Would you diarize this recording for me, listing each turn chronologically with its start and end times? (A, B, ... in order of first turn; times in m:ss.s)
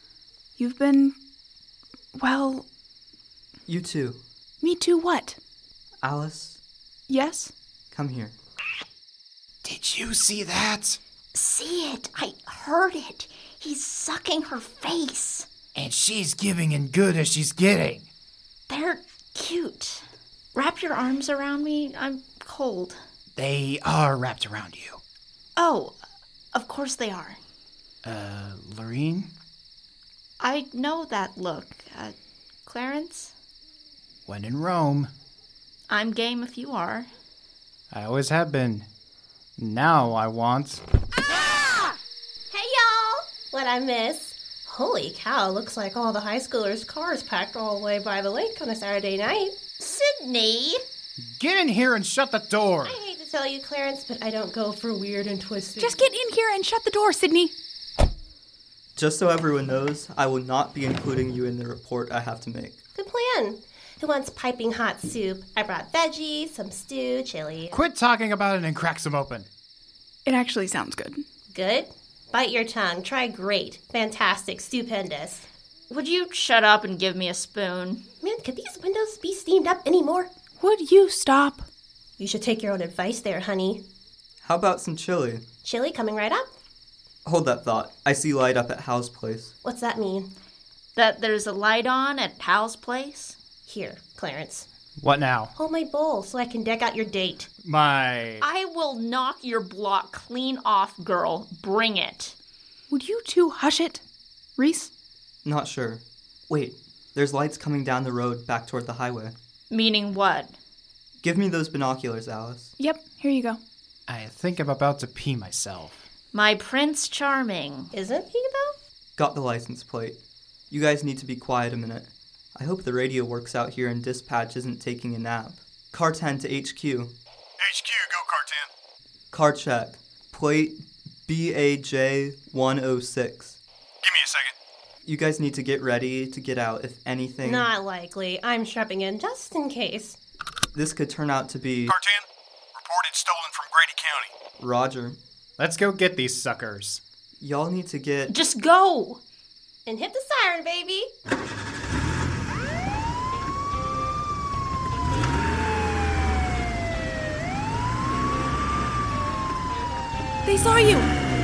0:00.6-0:01.2 A
0:02.2-0:02.7 A
0:03.7-0:04.2 B
0:04.6-0:05.4 A
0:06.0-0:06.6 B
0:07.1-0:07.5 A
0:07.9-0:08.4 B
0:09.6-0:11.0 C
0:11.3-0:15.5 D
0:15.7-0:18.1 C
0:18.7-0:23.0 D
0:23.4-0:25.0 C
0:25.6-0:26.0 D
0:26.5-0:27.4 D
0:28.0-0:29.3 C
0:30.4-0:32.2 D
0:32.7-0:33.3 D
0:34.3-0:35.1 C
0:35.9-0:37.1 D
0:37.9-0:38.9 C
0:39.6-0:40.8 C
0:42.5-0:49.6 E
0:49.8-0:50.8 D
0:51.2-0:53.0 C
0:52.8-0:56.0 E
0:55.8-0:57.5 A
0:59.0-1:02.8 B
1:03.0-1:07.8 E
1:07.7-1:09.5 C
1:10.3-1:11.2 A
1:11.5-1:15.5 E
1:15.9-1:18.0 D
1:18.2-1:20.3 E
1:20.6-1:21.7 A
1:22.2-1:23.8 E
1:24.4-1:25.4 B
1:25.6-1:26.5 E
1:27.2-1:29.5 B
1:29.6-1:30.3 E
1:31.0-1:33.4 D
1:33.7-1:34.7 E
1:35.0-1:35.5 C
1:35.6-1:37.5 E
1:37.6-1:38.4 C
1:38.4-1:42.4 D
1:42.9-1:44.0 A
1:44.6-1:44.9 A
1:45.4-1:49.4 B
1:49.7-1:50.6 D
1:51.2-1:52.7 B
1:52.8-1:53.6 A
1:54.1-1:56.0 C
1:56.3-1:57.9 D
1:57.9-1:58.8 E
1:59.2-2:00.2 B
2:00.7-2:07.1 B
2:07.6-2:08.7 F
2:09.3-2:13.6 B
2:14.0-2:14.5 F
2:15.1-2:17.7 B
2:17.4-2:20.2 E
2:20.7-2:22.0 B
2:21.9-2:22.3 F
2:22.8-2:24.3 F
2:24.6-2:25.2 B
2:25.6-2:27.0 C
2:27.4-2:28.3 B
2:28.3-2:29.2 D
2:29.9-2:31.1 E
2:40.4-2:41.1 A